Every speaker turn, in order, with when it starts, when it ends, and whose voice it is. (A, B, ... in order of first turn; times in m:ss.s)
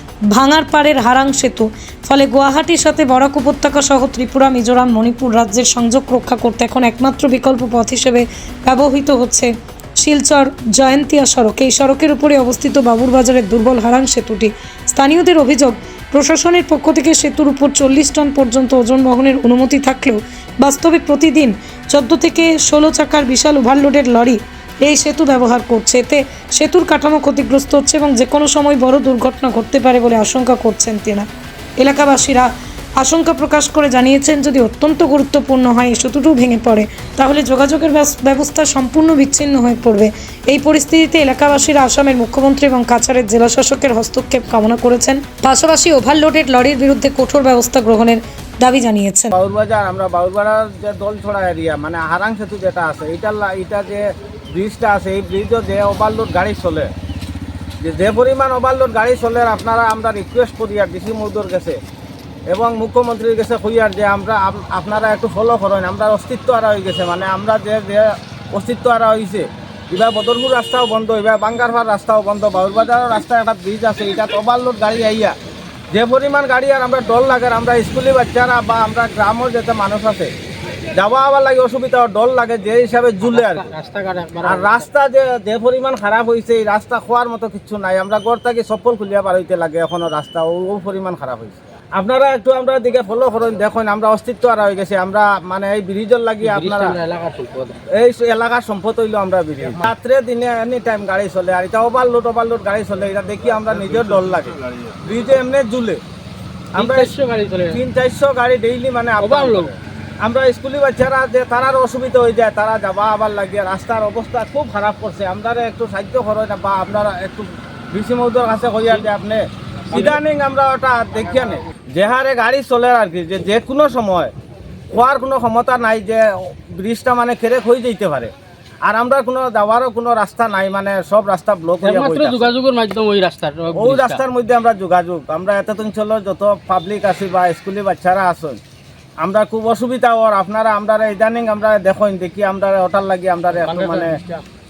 0:00.3-0:31.3 A
0:31.8-0:49.3 A
0:49.3-0:56.9 B
0:57.8-1:01.8 B
1:02.5-1:15.3 B
1:15.9-1:20.3 B
1:20.9-1:23.7 B
1:23.2-1:24.8 C
1:24.4-1:37.0 B
1:36.4-1:37.8 C
1:37.9-1:46.0 B
1:46.7-1:47.1 B
1:46.8-1:47.8 C
1:47.7-2:04.3 B
1:49.2-1:49.7 C
2:04.9-2:08.3 B
2:08.8-2:12.5 B
2:11.8-2:14.2 C
2:13.7-2:18.6 B
2:19.2-2:24.2 B
2:23.6-2:24.4 C